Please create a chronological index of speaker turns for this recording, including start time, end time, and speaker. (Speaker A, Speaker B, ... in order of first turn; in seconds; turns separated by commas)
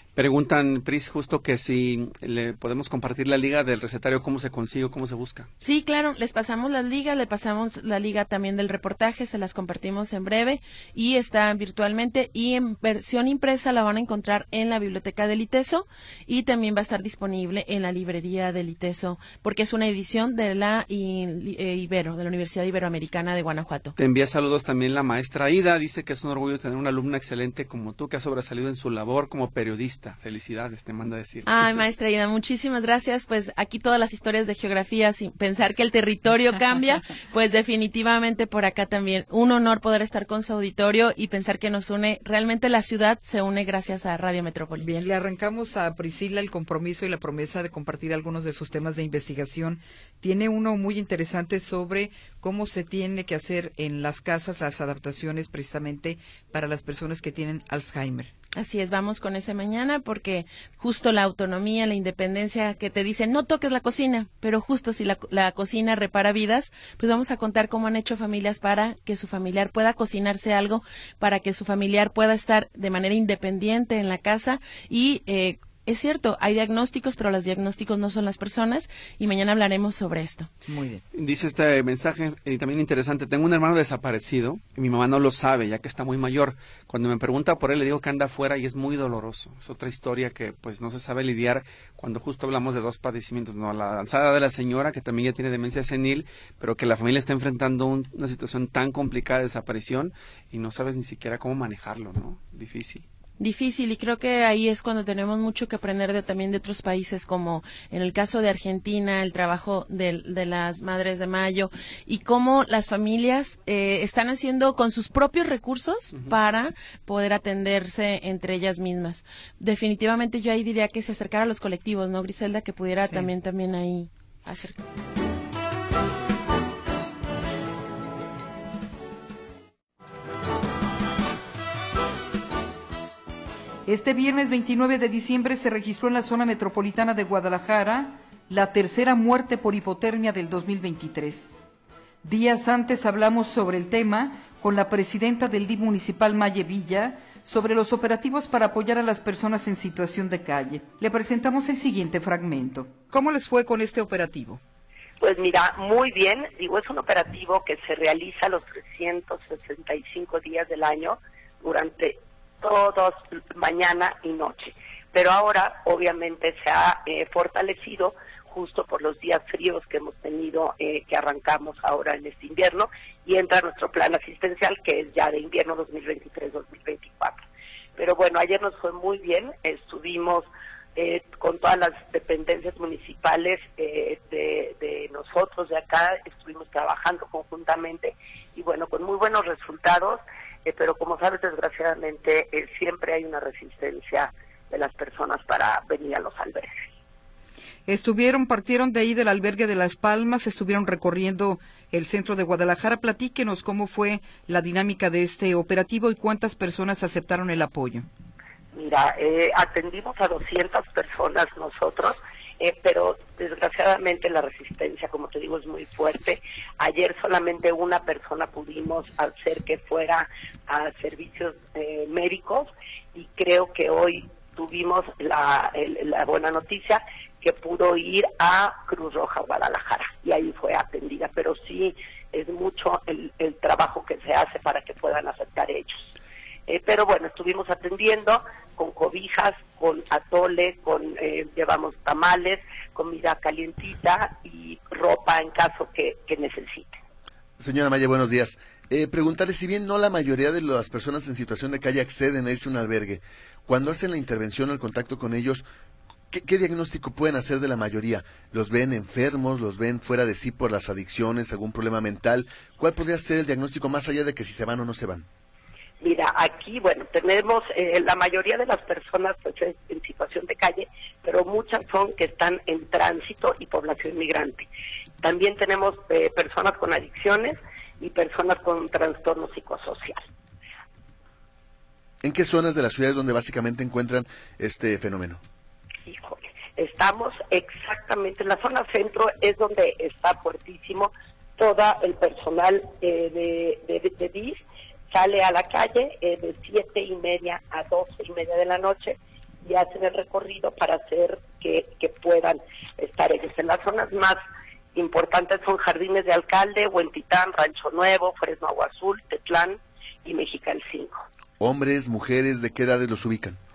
Speaker A: 0.1-5.5, Speaker B: 5.6-23.9, Speaker A: 24.0-31.5, Speaker B: 31.4-44.9, Speaker C: 44.8-58.3, Speaker B: 58.5-80.5, Speaker C: 80.7-81.0, Speaker A: 81.1-103.0, Speaker B: 103.4-124.8, Speaker C: 133.9-141.5, Speaker C: 142.2-154.6, Speaker D: 155.2-177.4, Speaker D: 178.0-196.7, Speaker C: 197.9-208.1, Speaker D: 208.7-236.1, Speaker D: 236.7-247.0, Speaker E: 247.6-255.6, Speaker E: 256.3-265.2, Speaker D: 266.0-274.7, Speaker D: 275.2-280.2, Speaker E: 282.2-285.4, Speaker D: 286.1-304.4, Speaker D: 304.9-311.2, Speaker E: 311.6-313.6